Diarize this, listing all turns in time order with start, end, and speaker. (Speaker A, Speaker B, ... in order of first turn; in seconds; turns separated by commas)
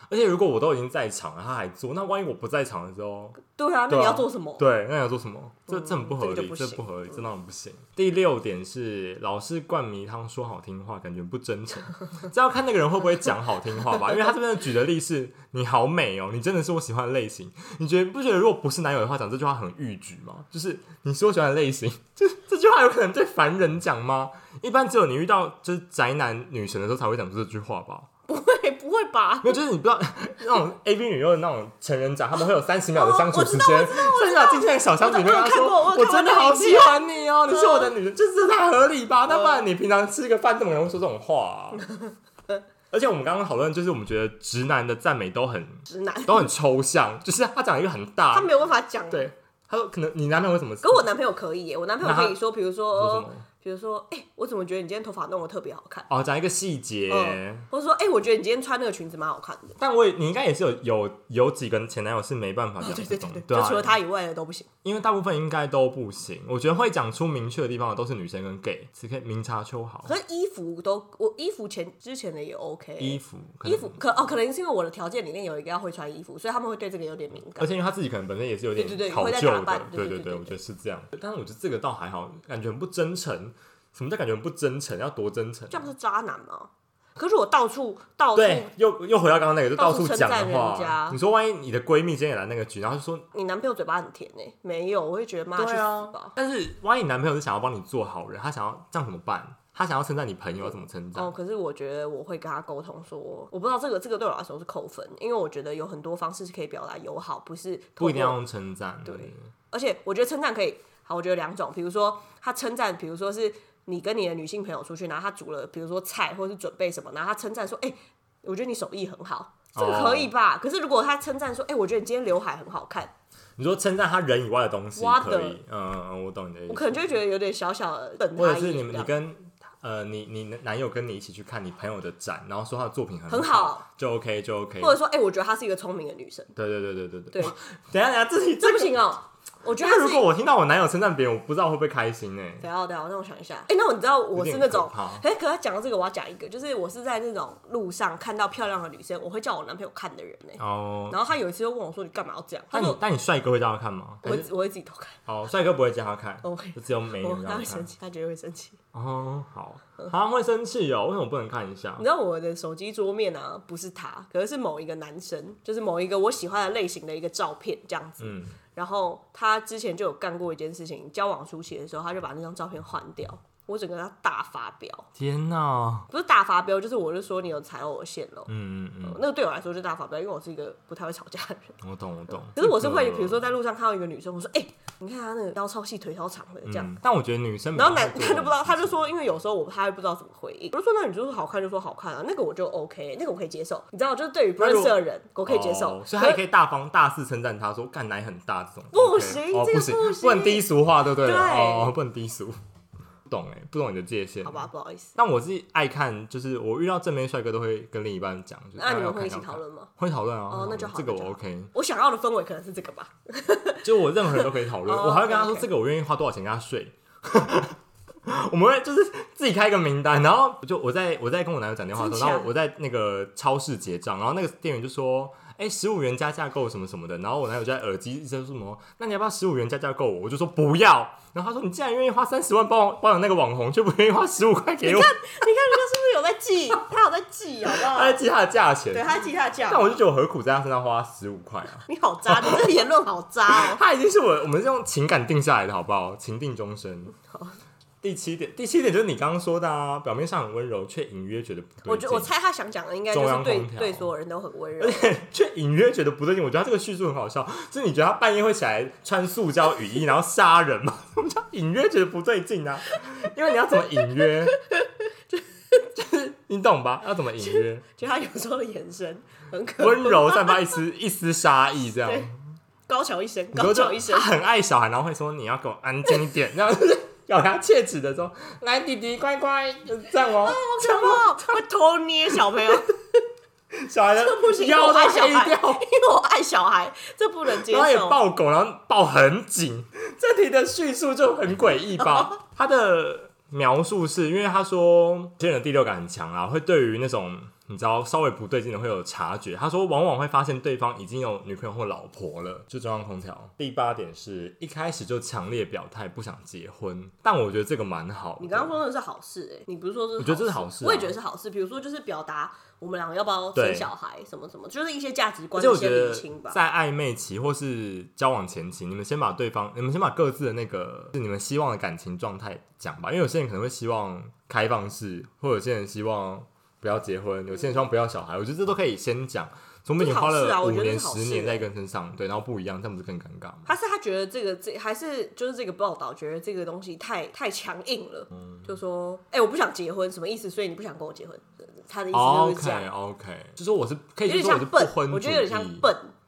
Speaker A: 0.1-3.4, Speaker B: 3.4-4.7, Speaker A: 3.9-28.1, Speaker B: 5.7-7.3, Speaker B: 28.3-29.6, Speaker A: 29.4-41.9, Speaker B: 32.9-37.9, Speaker B: 39.3-39.6, Speaker B: 41.8-42.6, Speaker A: 42.9-48.5, Speaker B: 45.9-46.5, Speaker B: 48.3-49.3, Speaker A: 49.1-51.1, Speaker B: 50.8-56.1, Speaker A: 52.0-52.4, Speaker A: 52.9-53.5, Speaker A: 56.1-57.7, Speaker B: 57.1-59.8, Speaker A: 59.8-64.0, Speaker B: 62.8-64.7, Speaker A: 64.8-70.1, Speaker B: 70.0-77.7, Speaker A: 73.0-74.0, Speaker A: 77.6-85.9, Speaker B: 78.8-80.6, Speaker B: 85.7-88.7, Speaker A: 88.3-93.2, Speaker B: 89.8-91.2, Speaker B: 93.3-96.3, Speaker A: 95.5-101.3, Speaker B: 100.6-108.4, Speaker A: 108.0-109.5, Speaker B: 109.0-123.1, Speaker A: 119.7-120.3, Speaker A: 123.6-127.1, Speaker B: 125.0-125.6, Speaker B: 126.7-129.1, Speaker A: 128.4-134.9, Speaker B: 133.3-133.8, Speaker B: 134.8-136.5, Speaker A: 136.5-139.0, Speaker B: 138.6-140.3, Speaker A: 139.7-142.6, Speaker B: 142.6-153.0, Speaker A: 144.3-145.2, Speaker A: 150.6-151.2, Speaker A: 152.7-154.5, Speaker B: 154.2-155.2, Speaker A: 155.2-157.9, Speaker B: 156.4-158.8, Speaker A: 158.9-162.0, Speaker B: 162.0-175.1, Speaker A: 168.2-168.6, Speaker A: 175.2-176.1, Speaker B: 176.1-178.5, Speaker A: 178.5-179.2, Speaker B: 179.0-181.8, Speaker A: 181.8-183.4, Speaker B: 182.5-186.9, Speaker A: 186.7-189.1, Speaker B: 187.7-196.4, Speaker A: 194.6-202.6, Speaker B: 198.9-201.9, Speaker A: 203.3-211.7, Speaker B: 204.4-205.1, Speaker B: 208.8-209.9, Speaker B: 210.5-215.7, Speaker A: 213.8-235.1, Speaker B: 221.9-222.5, Speaker B: 234.8-238.2, Speaker A: 237.7-242.8, Speaker B: 238.9-240.0, Speaker B: 241.8-243.8, Speaker A: 243.5-247.1, Speaker B: 247.2-247.5, Speaker A: 248.0-252.3, Speaker B: 251.9-255.1, Speaker A: 253.1-254.1, Speaker A: 254.8-264.6, Speaker B: 264.2-265.4, Speaker A: 265.9-267.9, Speaker B: 267.4-270.6, Speaker A: 269.8-272.3, Speaker B: 272.9-274.3, Speaker A: 273.5-281.3, Speaker B: 280.4-282.9, Speaker A: 283.7-285.9, Speaker B: 284.2-288.2, Speaker A: 287.5-308.8, Speaker B: 308.4-316.6, Speaker A: 310.2-311.1, Speaker A: 313.5-313.9, Speaker A: 315.5-333.7, Speaker B: 330.0-331.7, Speaker B: 333.6-342.9, Speaker A: 338.3-338.7, Speaker A: 342.1-345.9, Speaker B: 344.2-346.1